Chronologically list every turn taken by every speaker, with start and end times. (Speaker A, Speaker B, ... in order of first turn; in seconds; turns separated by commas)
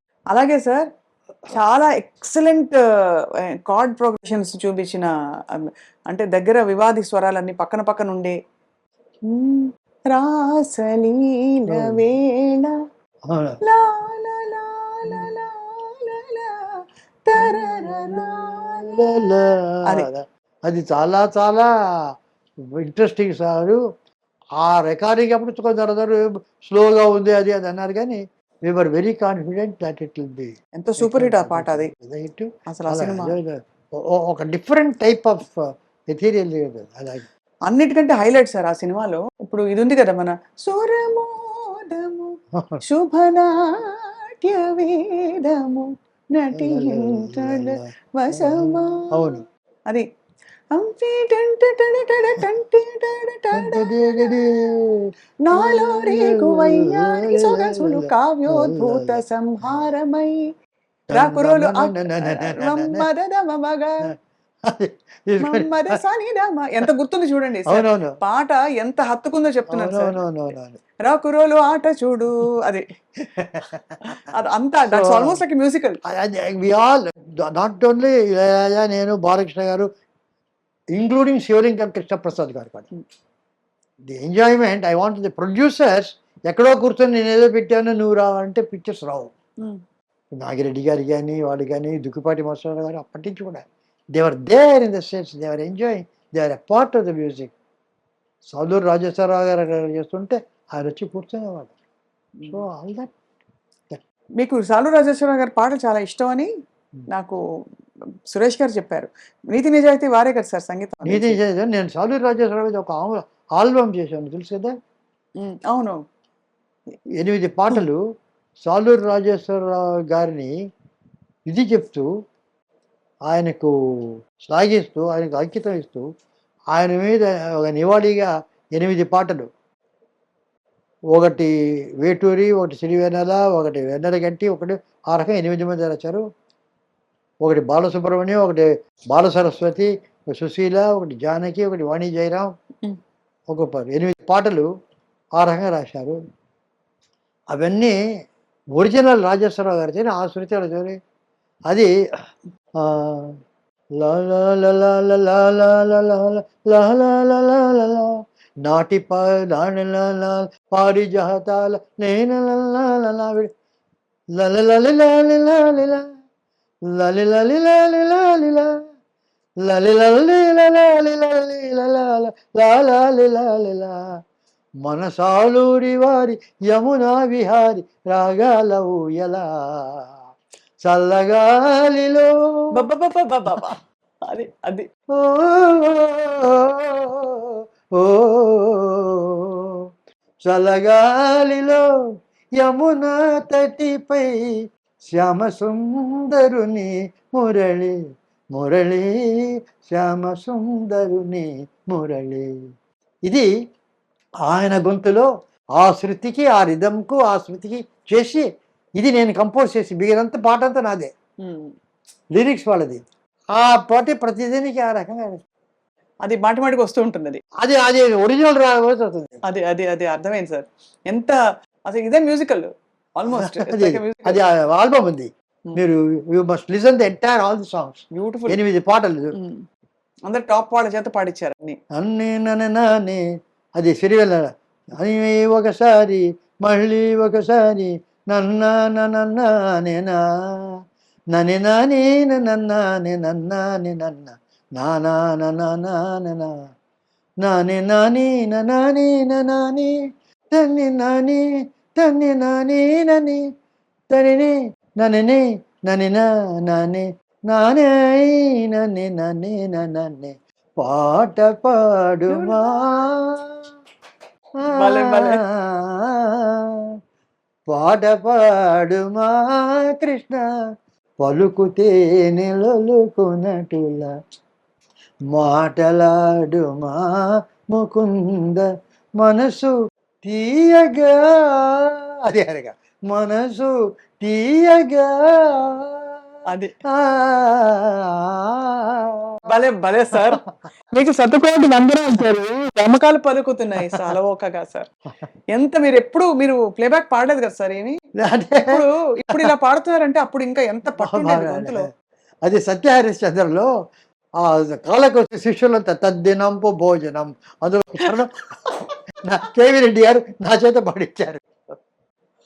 Speaker A: 0.3-0.8, Speaker A: 1.5-2.8, Speaker A: 3.7-8.3, Speaker A: 9.3-12.7, Speaker B: 11.7-12.1, Speaker B: 13.3-13.6, Speaker A: 13.7-16.6, Speaker A: 17.3-19.0, Speaker B: 17.4-21.7, Speaker B: 22.8-23.8, Speaker B: 24.6-33.6, Speaker A: 30.8-31.9, Speaker A: 32.7-33.4, Speaker B: 34.1-37.3, Speaker A: 37.7-42.3, Speaker B: 42.5-42.8, Speaker A: 42.8-43.5, Speaker A: 44.4-50.0, Speaker B: 46.5-49.4, Speaker A: 50.7-54.5, Speaker B: 53.5-55.0, Speaker A: 55.5-60.4, Speaker B: 55.5-59.9, Speaker B: 61.1-63.0, Speaker A: 61.1-63.9, Speaker B: 64.7-65.8, Speaker A: 65.4-70.2, Speaker B: 67.7-68.2, Speaker B: 69.7-70.8, Speaker A: 71.0-72.9, Speaker B: 73.3-74.0, Speaker A: 74.0-76.0, Speaker B: 74.9-75.4, Speaker B: 76.0-79.9, Speaker B: 80.9-82.9, Speaker B: 84.0-89.3, Speaker B: 90.4-97.5, Speaker B: 98.5-101.7, Speaker B: 102.5-103.1, Speaker A: 104.4-106.5, Speaker A: 107.1-107.4, Speaker A: 108.3-111.4, Speaker B: 111.0-114.8, Speaker A: 115.4-116.0, Speaker B: 117.2-118.0, Speaker B: 118.6-120.5, Speaker B: 121.5-122.1, Speaker B: 123.2-126.1, Speaker B: 126.7-129.5, Speaker B: 131.1-136.2, Speaker B: 137.4-142.5, Speaker B: 143.5-144.7, Speaker B: 145.3-146.2, Speaker B: 147.5-147.9, Speaker B: 148.8-150.9, Speaker B: 152.8-153.4, Speaker B: 154.0-163.5, Speaker B: 164.4-166.1, Speaker B: 166.9-168.8, Speaker B: 169.6-174.0, Speaker B: 174.8-180.1, Speaker B: 180.8-182.6, Speaker A: 182.8-184.8, Speaker B: 185.2-189.1, Speaker B: 190.4-191.8, Speaker B: 192.6-194.5, Speaker B: 195.1-197.9, Speaker B: 198.5-199.2, Speaker B: 199.8-202.5, Speaker B: 204.4-208.4, Speaker B: 209.0-211.1, Speaker A: 211.4-211.7, Speaker B: 212.3-213.0, Speaker B: 213.6-215.4, Speaker A: 216.2-217.4, Speaker B: 217.6-219.4, Speaker A: 219.5-221.4, Speaker A: 221.9-224.4, Speaker B: 223.3-229.3, Speaker A: 228.2-228.6, Speaker A: 230.3-231.8, Speaker B: 231.9-233.2, Speaker B: 233.8-240.7, Speaker B: 241.3-246.6, Speaker B: 247.4-249.9, Speaker B: 250.5-251.4, Speaker B: 252.0-253.4, Speaker B: 254.1-263.6, Speaker A: 262.3-262.9, Speaker B: 264.6-266.3, Speaker A: 264.7-265.4, Speaker B: 267.7-270.4, Speaker B: 271.2-274.1, Speaker B: 275.3-277.1, Speaker B: 277.7-278.6, Speaker B: 279.2-286.2, Speaker B: 286.9-289.2, Speaker A: 289.5-290.4, Speaker A: 290.9-294.9, Speaker A: 295.6-298.0, Speaker B: 298.2-298.8, Speaker A: 298.7-301.9, Speaker B: 301.0-301.9, Speaker B: 302.4-303.7, Speaker B: 304.4-308.4, Speaker B: 309.2-311.4